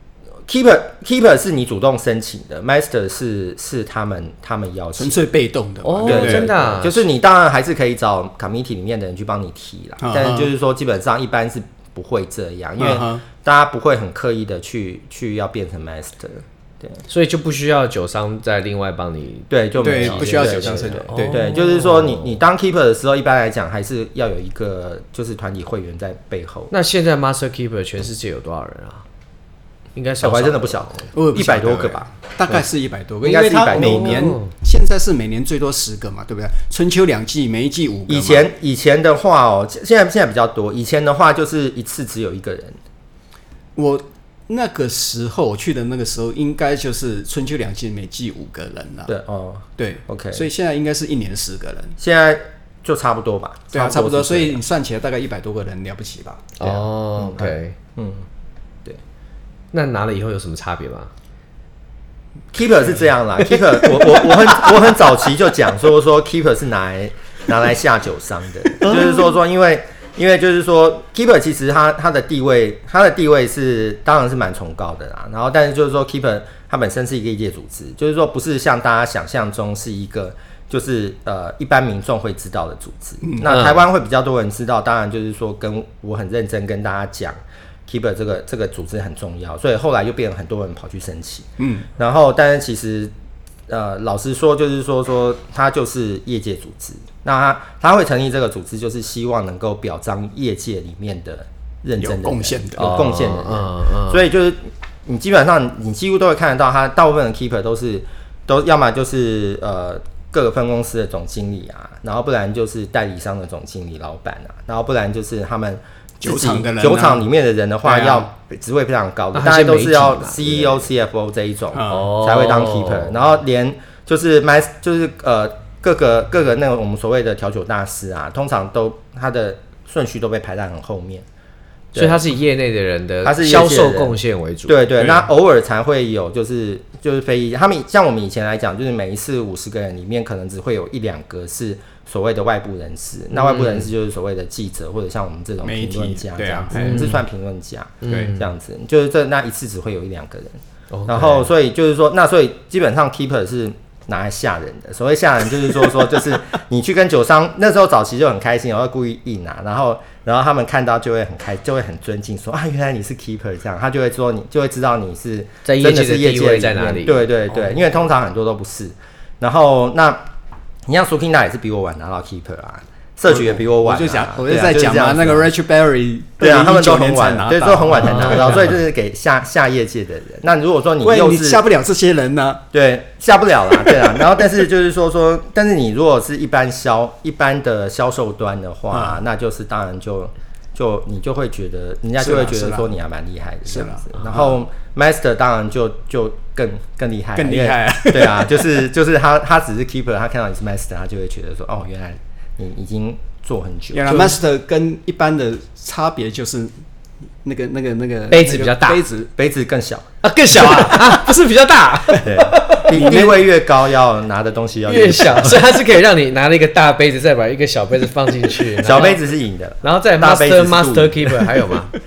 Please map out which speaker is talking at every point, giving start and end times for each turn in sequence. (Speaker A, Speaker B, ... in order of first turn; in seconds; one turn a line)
Speaker A: 0.5-5.2
Speaker B: 5.0-6.5
Speaker C: 5.8-7.1
Speaker A: 6.0-17.0
Speaker B: 10.0-10.5
Speaker B: 12.8-13.2
Speaker C: 17.1-22.4
Speaker A: 19.5-26.7
Speaker B: 19.8-21.4
Speaker C: 26.7-29.1
Speaker C: 29.9-31.1
Speaker A: 30.2-32.6
Speaker B: 31.1-38.5
Speaker A: 33.2-34.3
Speaker C: 33.7-34.5
Speaker A: 38.1-42.8
Speaker B: 43.8-49.1
Speaker A: 49.1-50.5
Speaker B: 49.8-52.0
Speaker A: 52.0-54.6
Speaker B: 53.7-56.5
Speaker C: 56.6-57.8
Speaker A: 56.6-58.3
Speaker C: 59.7-61.1
Speaker A: 62.5-93.1
Speaker B: 83.2-83.5
Speaker C: 83.4-83.8
Speaker B: 91.6-91.9
Speaker A: 93.7-131.3
Speaker B: 102.0-103.1
Speaker C: 102.8-104.2
Speaker B: 116.2-117.2
Speaker B: 117.8-118.3
Speaker C: 119.3-120.8
Speaker B: 121.7-122.1
Speaker C: 121.9-123.2
Speaker A: 131.9-132.2
Speaker C: 131.9-135.2
Speaker A: 133.2-170.3
Speaker C: 143.3-143.9
Speaker B: 145.6-147.2
Speaker C: 146.8-147.2
Speaker C: 148.0-148.5
Speaker B: 148.1-148.3
Speaker C: 150.9-151.5
Speaker C: 165.7-167.3
Speaker A: 170.9-175.5
Speaker B: 173.3-178.8
Speaker A: 176.4-181.6
Speaker C: 178.0-178.7
Speaker B: 181.0-182.7
Speaker A: 182.7-204.3
Speaker B: 188.9-189.2
Speaker B: 192.2-192.9
Speaker B: 193.7-194.6
Speaker B: 197.3-198.7
Speaker B: 203.9-206.7
Speaker B: 207.4-209.3
Speaker C: 208.3-209.0
Speaker A: 209.4-210.1
Speaker C: 210.2-213.3
Speaker A: 212.2-215.6
Speaker C: 214.9-219.2
Speaker A: 218.8-221.3
Speaker C: 219.8-221.9